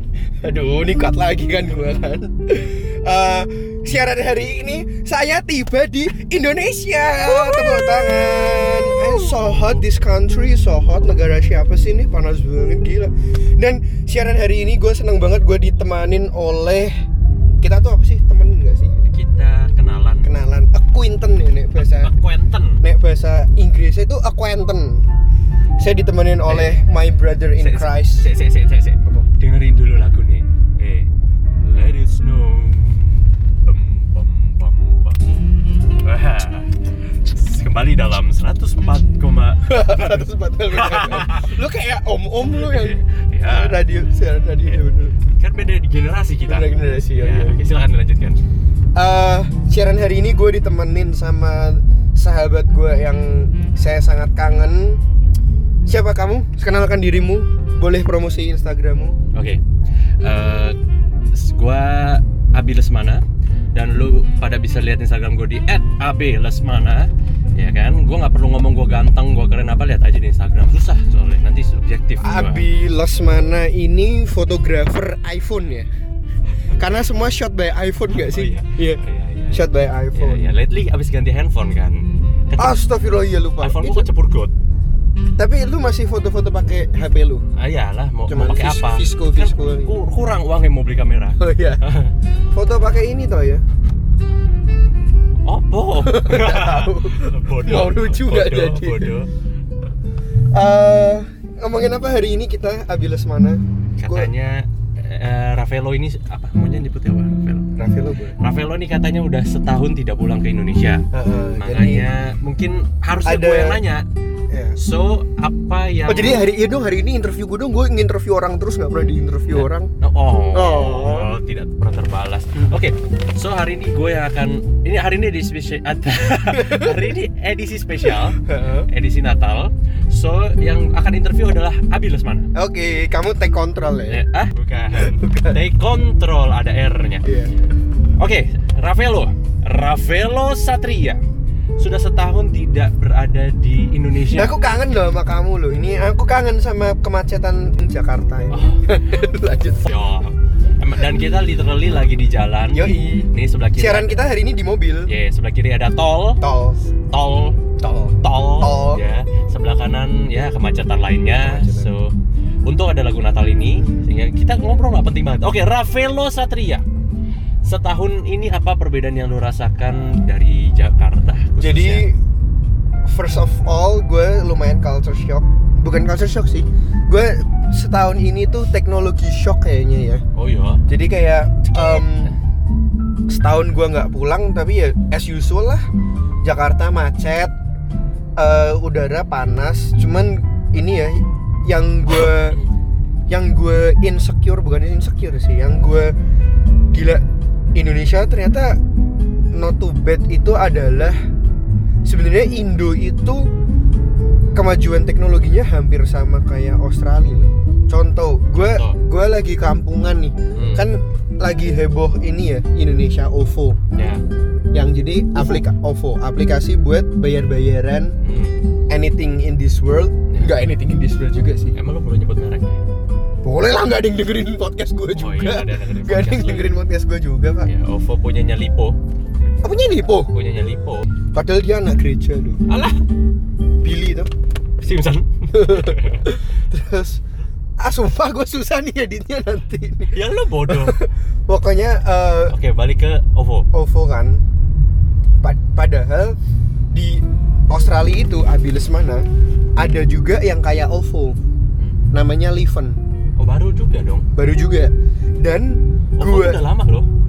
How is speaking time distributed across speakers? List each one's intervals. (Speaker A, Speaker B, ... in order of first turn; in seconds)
Speaker A: 0.4-17.0, 17.6-19.0, 20.2-22.1, 22.8-25.1, 25.8-28.3, 39.6-45.1, 46.5-47.6, 48.9-55.0, 55.9-59.1, 72.2-75.9, 76.8-80.5, 82.6-84.1, 85.4-87.5, 88.3-90.0, 91.4-91.9, 92.5-93.6, 96.0-99.1, 100.5-104.3, 107.8-108.4, 111.1-112.1, 113.2-113.8, 114.5-114.8, 116.1-119.9, 120.5-121.3, 126.5-127.1, 128.0-128.9, 132.5-134.2, 134.9-135.6, 137.2-137.5, 144.3-150.0, 152.7-155.1, 156.4-156.8, 157.8-159.0, 161.3-161.9, 163.8-164.1, 171.6-172.2, 173.0-180.2, 180.9-182.3, 183.3-185.8, 186.4-187.5, 188.3-192.6, 193.3-196.1, 196.9-198.8, 199.5-201.2, 202.0-203.5, 204.5-213.8, 214.7-218.2, 218.9-221.7, 223.4-227.7, 229.6-230.3, 231.3-232.6, 233.8-234.3, 235.5-237.2, 237.8-240.1, 240.7-242.6, 243.7-244.4, 245.4-246.4, 246.9-249.2, 249.8-251.4, 252.1-253.0, 254.3-256.6
Speaker B: 9.3-9.8, 19.0-20.4, 21.9-22.8, 26.4-26.8, 27.6-35.2, 35.9-41.6, 42.5-43.8, 44.6-48.4, 59.3-59.6, 60.2-60.8, 61.3-72.7, 78.1-82.8, 83.6-84.5, 87.5-92.1, 95.4-99.3, 104.0-107.7, 108.4-114.0, 114.8-116.4, 119.5-132.5, 134.1-141.2, 141.8-144.5, 148.5-154.3, 155.1-156.4, 157.1-157.6, 158.2-162.1, 162.6-166.8, 167.6-172.1, 180.3-180.8, 181.7-182.3, 192.2-192.7, 208.5-209.0, 210.5-210.9, 213.9-214.2, 215.4-215.6, 218.2-218.6, 220.3-220.5, 221.7-222.8, 225.1-226.8, 227.6-229.0, 230.3-231.1, 232.7-233.0, 234.8-236.4, 240.1-241.0, 242.5-243.7, 253.4-254.3, 256.2-257.1